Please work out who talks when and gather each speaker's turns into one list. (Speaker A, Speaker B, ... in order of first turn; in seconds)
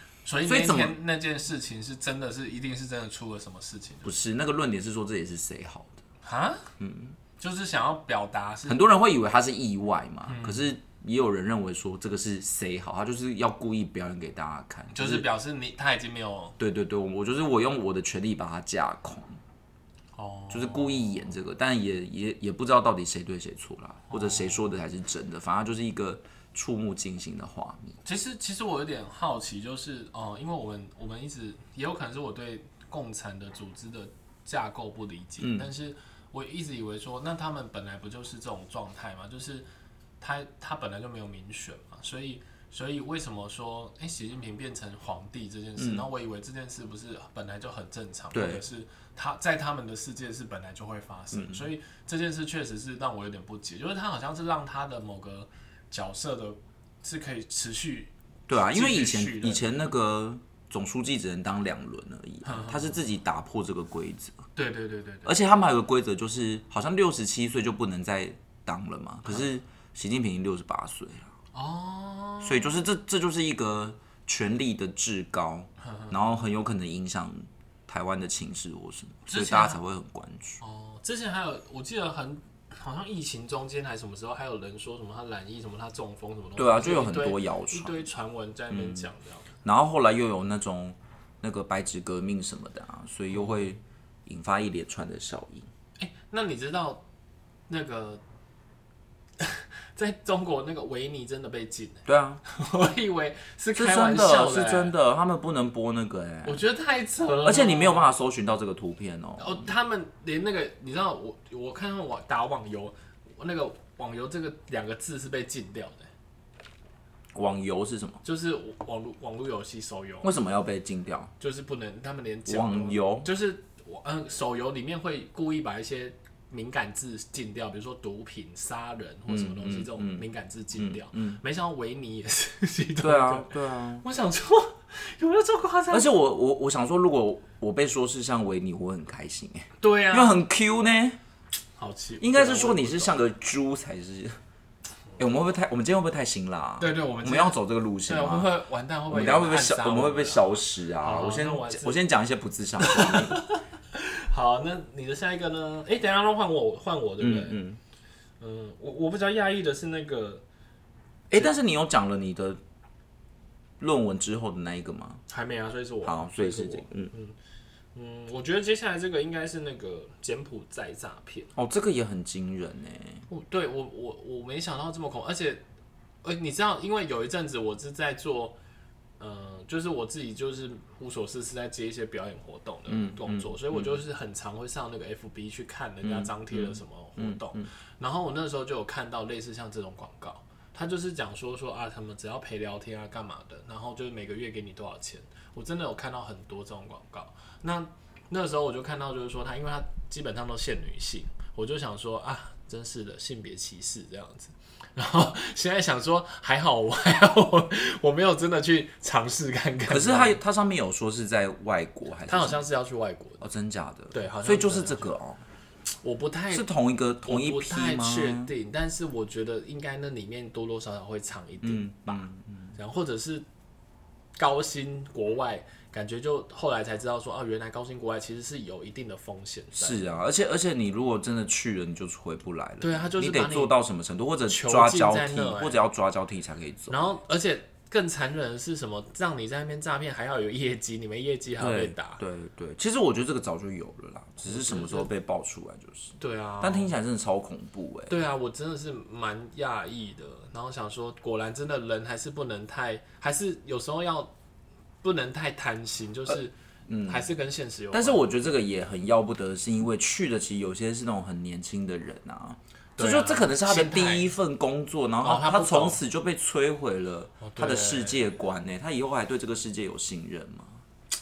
Speaker A: 0.2-4.1, 6.2-6.7, 7.4-8.9, 10.2-10.7, 14.9-16.6, 20.1-21.1, 24.1-24.7, 28.0-39.7, 40.2-59.8, 62.4-63.0, 64.5-65.3, 71.5-72.8, 75.8-76.1, 79.3-79.8, 80.6-89.5, 93.3-93.7, 96.0-97.0, 97.7-98.2, 99.4-104.9, 106.4-108.0, 109.4-116.1, 118.2-120.3, 121.4-136.1, 139.8-140.4, 141.8-143.2, 146.8-152.0, 152.8-157.6, 158.4-160.4, 165.3-167.3, 167.9-171.5, 173.3-175.6, 176.2-178.6, 179.2-210.4, 212.3-213.4, 214.1-215.1, 216.0-216.7, 217.2-223.4, 224.4-230.0, 232.8-233.7, 234.5-235.8, 236.9-242.2, 244.4-245.1, 246.2-246.9, 248.1-254.3, 255.0-256.5, 257.1-258.3, 263.0-264.3, 265.2-266.0, 267.4-268.2
Speaker B: 0.4-0.9, 4.0-6.0, 6.8-7.2, 8.7-15.2, 16.6-19.4, 20.5-28.0, 35.4-35.7, 45.8-46.0, 48.3-48.6, 51.3-51.7, 58.5-64.4, 65.2-71.3, 72.4-80.6, 86.6-88.0, 88.7-89.1, 89.6-95.7, 102.0-102.4, 103.7-106.6, 107.4-109.7, 117.3-118.2, 120.2-121.3, 122.5-123.3, 129.3-131.4, 133.0-134.0, 135.9-141.2, 142.2-144.4, 145.2-148.5, 149.1-153.4, 157.2-157.8, 161.3-162.6, 163.8-165.2, 166.0-167.1, 171.5-173.2, 182.9-184.0, 186.0-187.7, 209.9-212.6, 213.4-215.4, 216.5-218.5, 221.6-222.7, 229.7-237.0, 241.6-248.2, 256.3-257.3, 257.9-270.8